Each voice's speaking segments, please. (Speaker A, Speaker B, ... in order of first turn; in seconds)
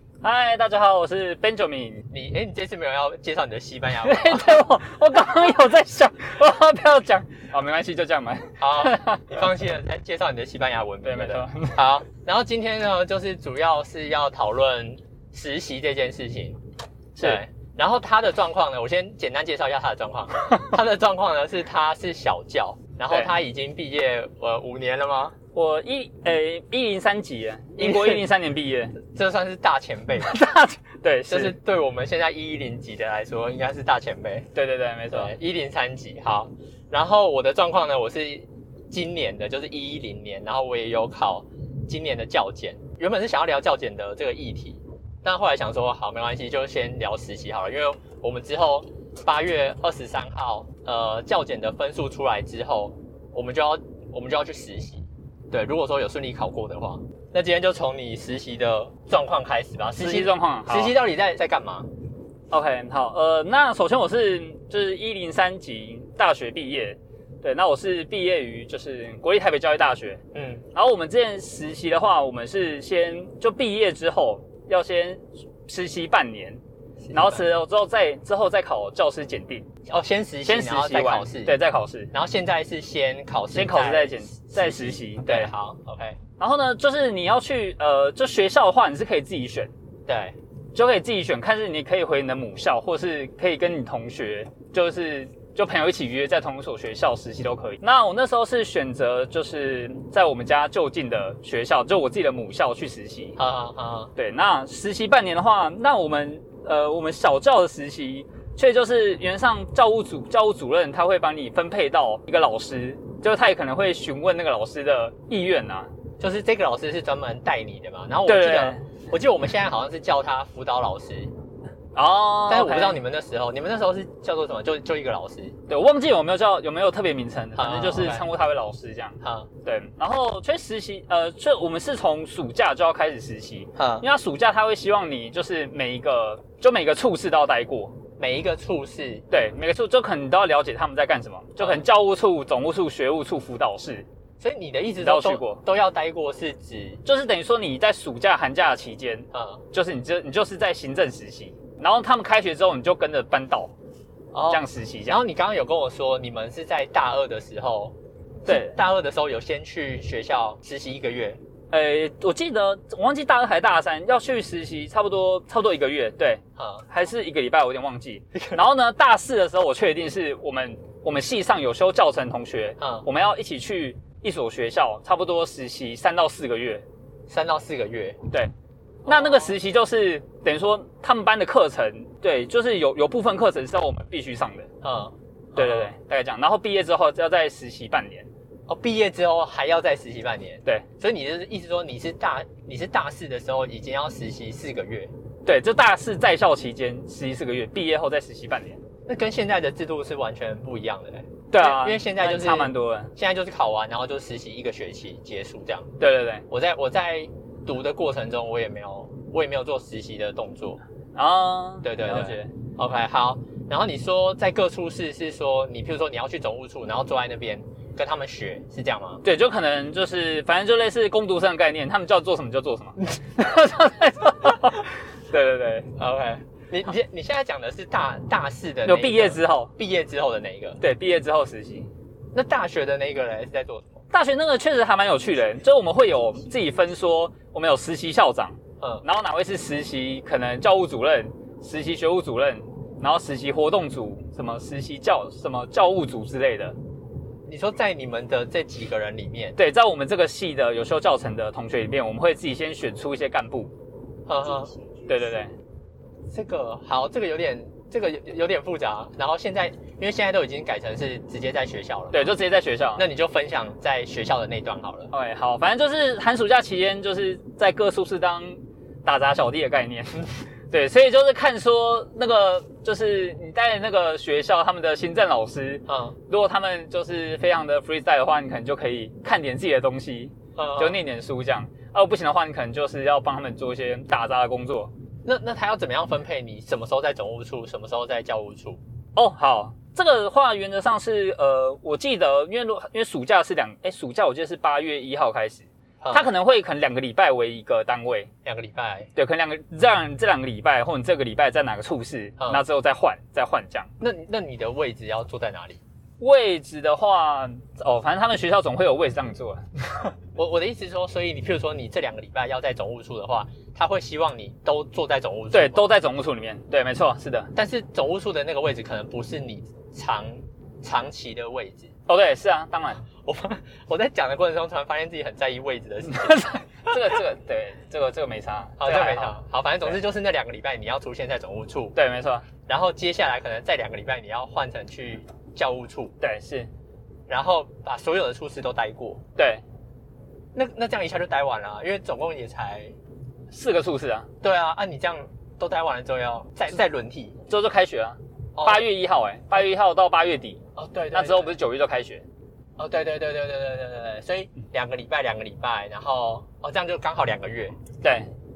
Speaker A: 0.2-2.1, 4.0-9.5, 11.0-11.8, 17.1-17.4, 25.5-29.0, 30.2-31.6, 34.5-35.4, 60.0-61.0, 62.5-70.2, 70.8-76.6, 77.1-79.7, 80.5-82.1, 83.5-85.5, 86.4-89.7, 90.7-103.4, 104.2-115.9, 118.2-118.8, 122.0-123.0, 125.7-138.0, 139.3-144.1, 145.0-145.6, 147.1-153.7, 154.5-155.2, 158.5-158.8, 161.7-176.8, 179.1-184.7, 185.6-188.3, 195.4-198.8, 201.5-203.1, 206.0-206.4, 211.2-212.5, 219.2-225.9, 228.9-229.7, 230.8-231.9, 234.1-246.8, 249.6-253.7, 255.1-255.5, 262.1-263.0, 265.1-284.9, 289.2-298.3, 299.2-303.9, 306.2-310.1, 315.5-317.5, 322.1-323.0, 326.1-329.4, 331.9-332.5, 336.2-336.7, 339.4-339.6, 343.5-344.3, 347.5-350.6, 351.1-352.2, 358.0-358.3
Speaker B: 2.1-4.6, 8.6-16.6, 17.2-25.4, 27.8-28.3, 29.0-30.4, 31.3-34.5, 35.1-61.9, 70.3-70.7, 77.0-77.5, 79.9-81.5, 82.1-86.2, 90.1-90.4, 103.4-104.1, 116.2-121.3, 122.5-125.6, 127.6-128.3, 129.2-129.5, 133.8-134.1, 138.2-139.3, 141.6-141.9, 144.4-147.0, 149.3-149.6, 154.3-161.4, 166.6-166.9, 168.3-168.6, 172.8-173.1, 177.3-178.2, 179.1-179.6, 184.8-185.9, 188.7-195.1, 199.1-210.8, 211.8-219.2, 226.0-230.8, 232.3-234.0, 247.5-249.6, 254.3-254.9, 256.3-262.4, 263.0-265.1, 275.9-276.2, 280.6-281.0, 285.2-288.8, 296.0-296.3, 298.4-299.1, 304.0-305.8, 310.4-315.9, 317.6-321.9, 323.2-327.0, 328.8-332.0, 332.7-336.1, 337.3-339.2, 340.6-342.9, 344.4-347.4, 348.6-348.9, 350.8-351.6, 352.8-357.8